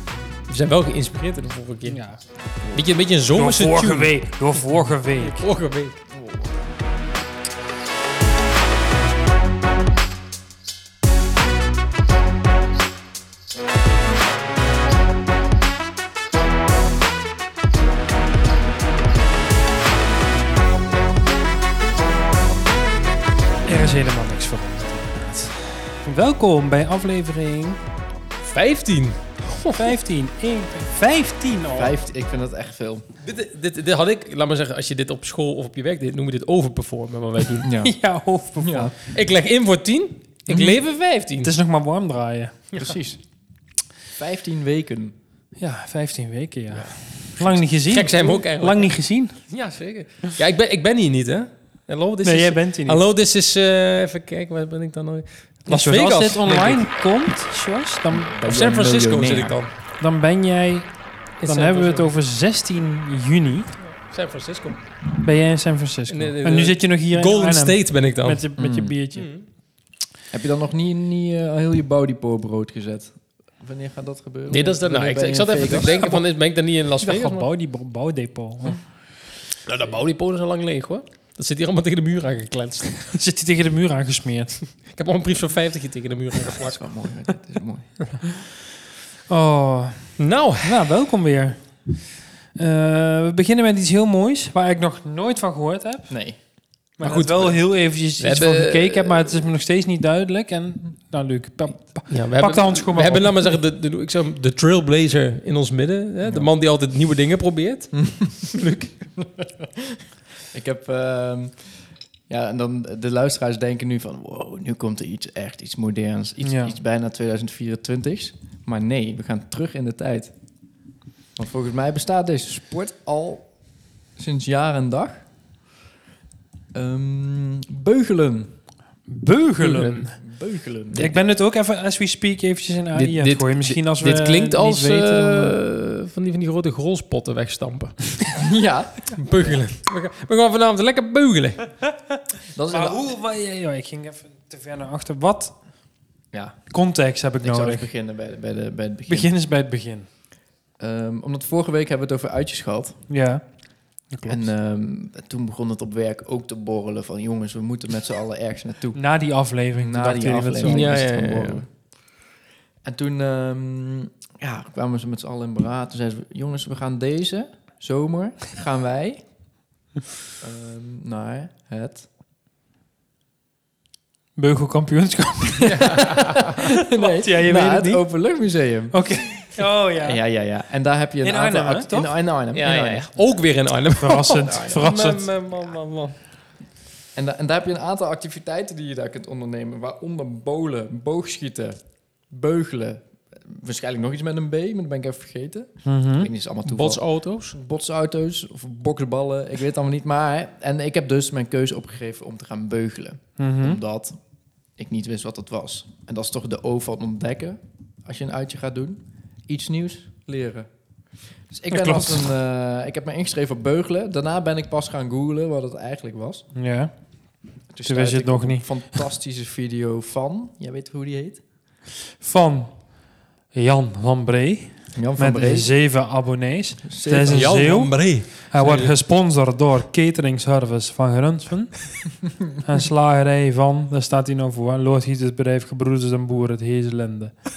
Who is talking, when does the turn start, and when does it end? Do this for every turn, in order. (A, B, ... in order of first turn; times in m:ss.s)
0:00.5-0:02.0 A
0:01.9-0:02.2 B
0:02.6-0:04.2 A
0:03.3-0:05.4 B
0:05.2-0:06.0 A
0:06.1-0:06.6 C
0:23.6-0:27.8 B
0:28.4-0:29.9 A
0:29.7-0:32.0 B
0:31.7-0:33.1 C
0:33.2-0:37.7 A
0:37.6-0:38.0 C
0:37.8-0:38.9 B
0:38.6-0:38.9 C
0:39.1-0:41.5 A
0:40.5-0:40.8 B
0:41.4-0:42.6 B
0:42.8-0:43.2 C
0:44.2-0:45.1 C
0:45.6-0:49.4 B
0:46.8-0:48.9 A
0:49.5-0:56.8 A
0:52.2-0:53.0 B
0:55.7-0:58.4 B
0:58.3-0:59.6 C
0:58.5-0:59.7 A
1:00.0-1:03.7 B
1:01.4-1:02.1 A
1:03.8-1:04.8 A
1:05.2-1:09.3 B
1:06.1-1:08.4 A
1:08.6-1:09.0 C
1:09.1-1:09.5 A
1:10.3-1:16.0 C
1:14.5-1:17.5 A
1:17.0-1:18.8 B
1:19.6-1:23.1 A
1:23.1-1:24.6 B
1:24.8-1:26.9 A
1:26.5-1:28.2 C
1:29.3-1:32.0 B
1:30.2-1:30.8 A
1:32.6-1:36.2 B
1:36.1-1:36.4 C
1:37.0-1:43.4 B
1:37.0-1:37.5 C
1:37.0-1:37.6 A
1:38.2-1:39.4 A
1:42.1-1:48.9 A
1:48.0-1:48.3 C
1:49.4-1:49.8 C
1:50.5-1:51.7 C
1:52.3-2:00.3 C
1:56.4-1:56.8 B
2:01.4-2:03.6 C
2:04.2-2:05.2 C
2:06.7-2:08.5 C
2:09.1-2:10.2 B
2:09.6-2:11.1 C
2:10.9-2:15.6 B
2:12.9-2:18.1 A
2:18.3-2:19.6 C
2:19.1-2:21.7 A
2:22.5-2:23.0 C
2:22.7-2:25.6 B
2:26.3-2:26.6 C
2:26.7-2:27.9 B
2:27.4-2:29.3 C
2:29.1-2:30.1 B
2:30.8-2:33.0 C
2:33.1-2:33.4 B
2:34.1-2:34.5 B
2:34.3-2:39.0 C
2:39.0-2:41.0 B
2:39.8-2:41.7 C
2:40.6-2:41.6 A
2:42.8-2:49.2 C
2:50.4-2:52.1 C
2:54.4-2:58.0 B
2:55.6-3:03.1 C
2:56.1-2:56.5 A
2:58.9-3:00.2 B
3:01.2-3:02.1 B
3:02.5-3:06.2 A
3:04.0-3:05.3 B
3:04.4-3:04.9 C
3:07.2-3:24.2 C
3:15.8-3:16.3 B
3:16.6-3:17.6 A
3:23.4-3:23.8 B
3:24.8-3:30.7 C
3:31.5-3:36.5 C
3:31.7-3:32.3 B
3:36.6-3:36.9 B
3:37.7-3:41.4 C
3:37.8-3:39.0 B
3:42.2-3:42.8 B
3:43.5-3:52.0 B
3:45.0-3:45.7 C
3:46.8-3:47.6 C
3:47.3-3:48.9 A
3:52.6-3:57.4 B